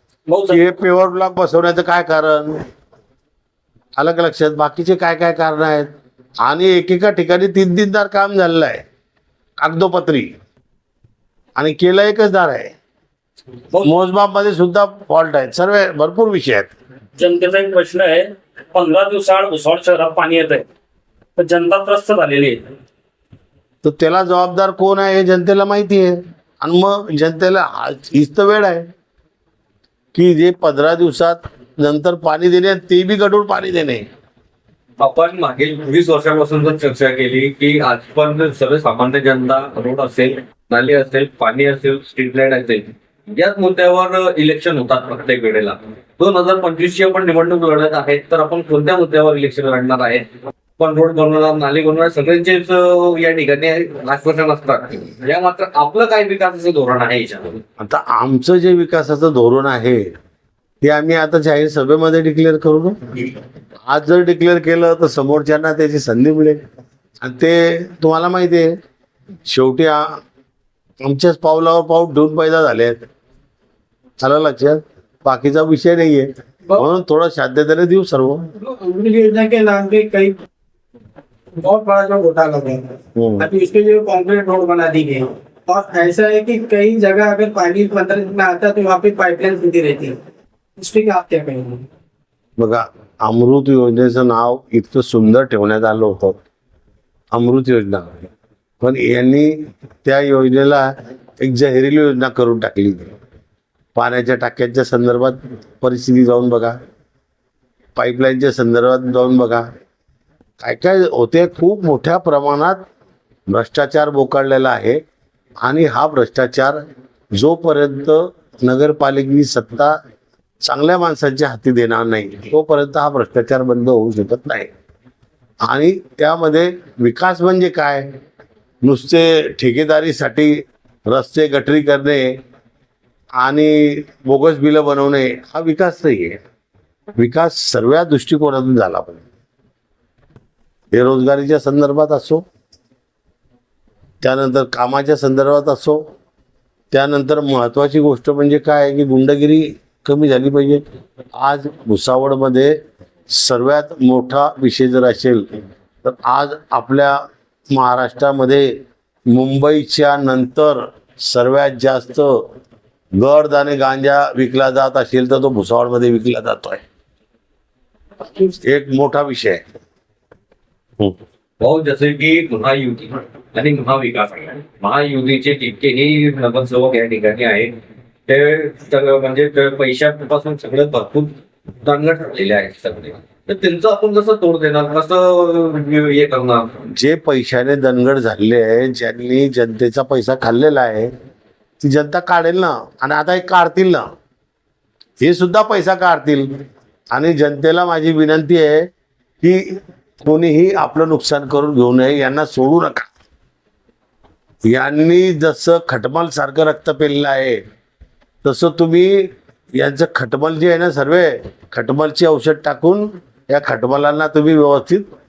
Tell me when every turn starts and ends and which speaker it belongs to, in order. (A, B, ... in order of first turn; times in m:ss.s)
0:00.3-0:00.6 A
0:00.5-0:02.6 B
0:04.0-0:05.9 B
0:06.4-0:08.8 B
0:09.6-0:10.3 B
0:11.6-0:12.7 B
0:13.8-0:16.7 B
0:17.2-0:20.6 A
0:21.4-0:22.6 A
0:23.8-0:28.9 B
0:30.1-0:34.0 B
0:35.0-0:50.3 C
0:50.8-0:57.6 C
0:57.8-1:00.1 B
1:00.8-1:06.6 B
1:07.2-1:08.7 B
1:09.5-1:10.2 B
1:11.0-1:13.0 B
1:14.2-1:18.5 B
1:18.6-1:20.4 D
1:21.6-1:22.8 D
1:23.2-1:23.5 B
1:23.4-1:30.2 D
1:30.8-1:31.8 D
1:32.6-1:36.4 B
1:37.3-1:38.3 B
1:38.8-1:43.1 B
1:44.0-1:46.8 B
1:48.0-1:49.7 B
1:50.6-1:52.8 B
1:53.5-1:55.0 B
1:55.6-1:56.8 B
1:57.3-2:00.0 B
2:00.6-2:04.7 B
2:05.6-2:08.1 B
2:08.8-2:12.4 B
2:13.4-2:16.4 B
2:17.2-2:19.2 B
2:20.9-2:22.4 B
2:24.2-2:26.0 B
2:26.9-2:30.8 B
2:31.4-2:32.8 B
2:33.3-2:35.5 B
2:36.0-2:42.4 B
2:43.2-2:46.8 B
2:48.4-2:49.6 B
2:51.6-2:57.8 C
2:58.3-3:06.8 C
3:06.9-3:11.1 B
3:11.8-3:14.1 B
3:15.2-3:16.5 B
3:17.1-3:18.9 B
3:19.4-3:23.1 B
3:24.7-3:27.6 B
3:28.4-3:35.1 B